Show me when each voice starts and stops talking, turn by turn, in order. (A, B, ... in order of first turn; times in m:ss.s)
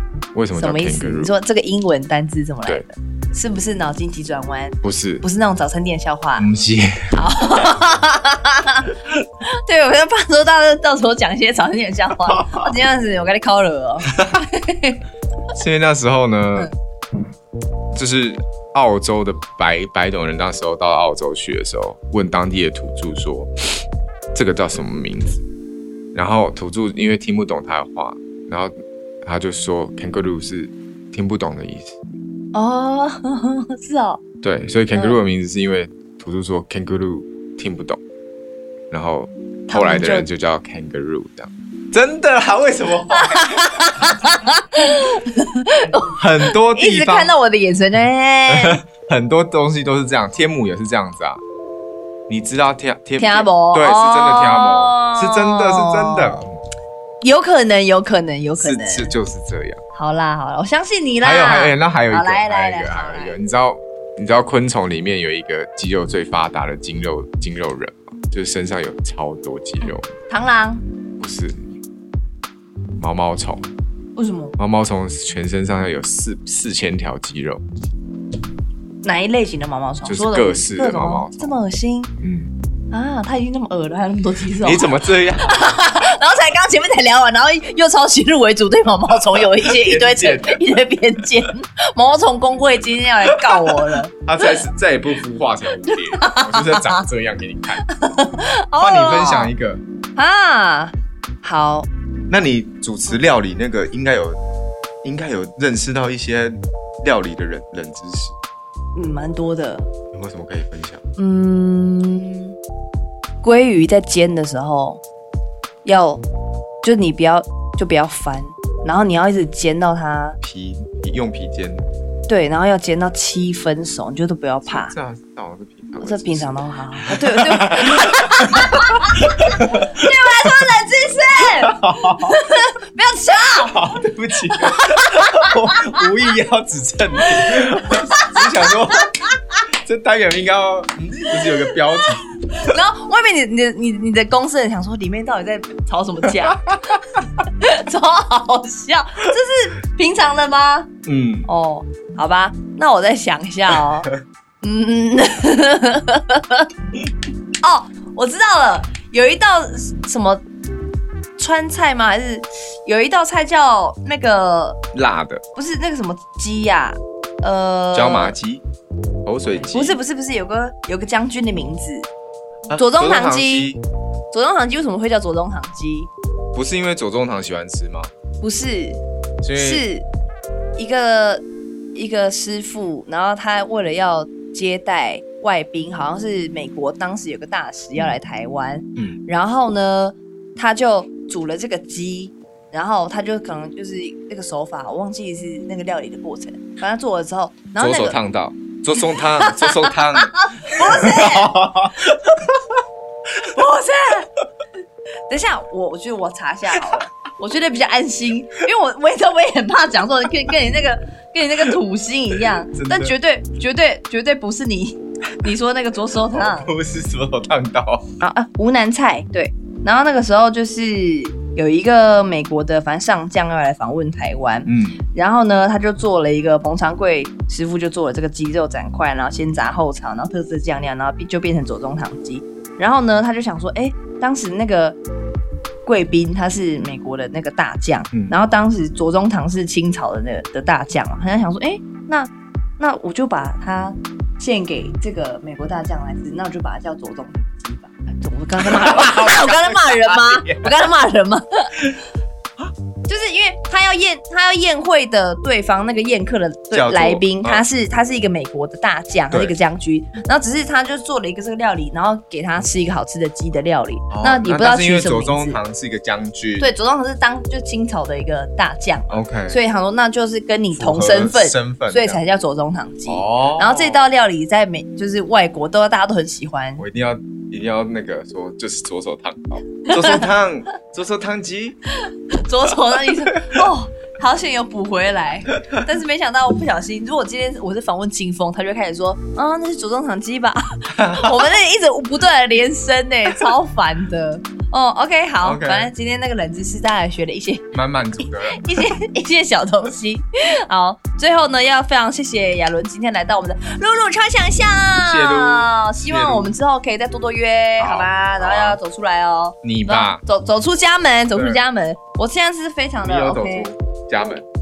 0:00.3-0:01.3 A
0:00.6-0:06.5 B
0:04.8-0:05.2 A
0:06.4-0:07.2 A
0:07.1-0:15.0 B
0:12.3-0:12.7 A
0:15.5-0:16.7 A
0:17.9-0:23.5 A
0:24.3-0:25.4 A
0:26.2-0:32.0 A
0:32.5-0:34.2 B
0:34.4-0:38.0 A
0:34.9-0:35.2 B
0:38.9-0:44.4 A
0:39.7-0:40.3 B
0:43.1-0:48.8 B
0:46.1-0:47.4 A
0:48.5-0:51.4 A
0:52.3-0:56.6 A
0:53.2-0:56.5 B
0:57.2-0:59.1 B
0:58.6-0:59.8 A
0:59.9-1:03.4 B
1:01.2-1:10.1 A
1:09.8-1:10.8 B
1:11.2-1:11.7 A
1:13.0-1:13.7 A
1:14.2-1:14.6 B
1:14.6-1:17.6 A
1:19.0-1:22.1 B
1:20.0-1:21.6 A
1:22.2-1:22.5 A
1:22.9-1:24.9 B
1:24.6-1:25.7 A
1:25.4-1:34.6 B
1:29.4-1:30.6 A
1:33.5-1:37.9 A
1:35.9-1:37.0 B
1:37.8-1:39.5 B
1:38.8-1:39.8 A
1:40.2-1:41.9 B
1:42.3-1:44.4 A
1:45.0-1:48.4 A
1:49.0-1:49.9 B
1:50.1-1:51.0 A
1:51.2-1:52.6 B
1:53.4-1:55.0 B
1:55.8-1:56.2 B
1:56.8-2:00.4 B
2:00.4-2:01.8 A
2:02.3-2:04.9 B
2:04.7-2:10.5 A
2:06.0-2:13.8 B
2:11.4-2:12.4 A
2:13.5-2:22.8 A
2:14.8-2:16.0 B
2:17.2-2:18.4 B
2:21.2-2:30.9 B
2:26.4-2:27.2 A
2:31.1-2:31.5 A
2:31.5-2:34.1 B
2:34.6-2:36.7 B
2:37.6-2:40.4 B
2:41.4-2:44.8 B
2:44.9-2:45.4 A
2:45.6-2:48.4 B
2:47.9-2:48.6 A
2:49.2-2:50.0 A
2:49.5-2:52.1 B
2:52.7-2:53.8 A
2:52.7-2:53.7 B
2:54.3-2:56.1 B
2:56.6-2:58.1 A
2:58.4-2:59.0 B
2:59.4-2:59.8 A
2:59.6-3:00.1 B
3:00.8-3:01.4 B
3:02.0-3:18.2 B
3:17.8-3:22.8 A
3:19.0-3:21.7 B
3:23.4-3:24.3 B
3:25.3-3:36.7 B
3:32.4-3:33.1 A
3:36.1-3:38.1 A
3:38.2-3:55.0 B
3:44.7-3:45.0 A
3:55.9-4:11.7 B
4:08.6-4:10.7 A
4:13.1-4:25.6 B
4:16.7-4:17.6 A
4:24.1-4:26.7 A
4:26.6-4:36.8 B
4:29.1-4:29.6 A
4:30.7-4:32.2 A
4:33.1-4:34.1 A
4:36.8-4:41.8 A
4:39.9-4:40.2 B
4:42.1-4:57.7 B
4:43.0-4:43.6 A
4:50.9-4:51.5 A
4:55.4-4:55.9 A
4:57.7-4:58.9 A
4:58.5-5:13.7 B
5:05.0-5:06.5 A
5:07.8-5:08.8 A
5:09.6-5:10.2 A
5:11.4-5:11.6 A
5:13.0-5:14.4 A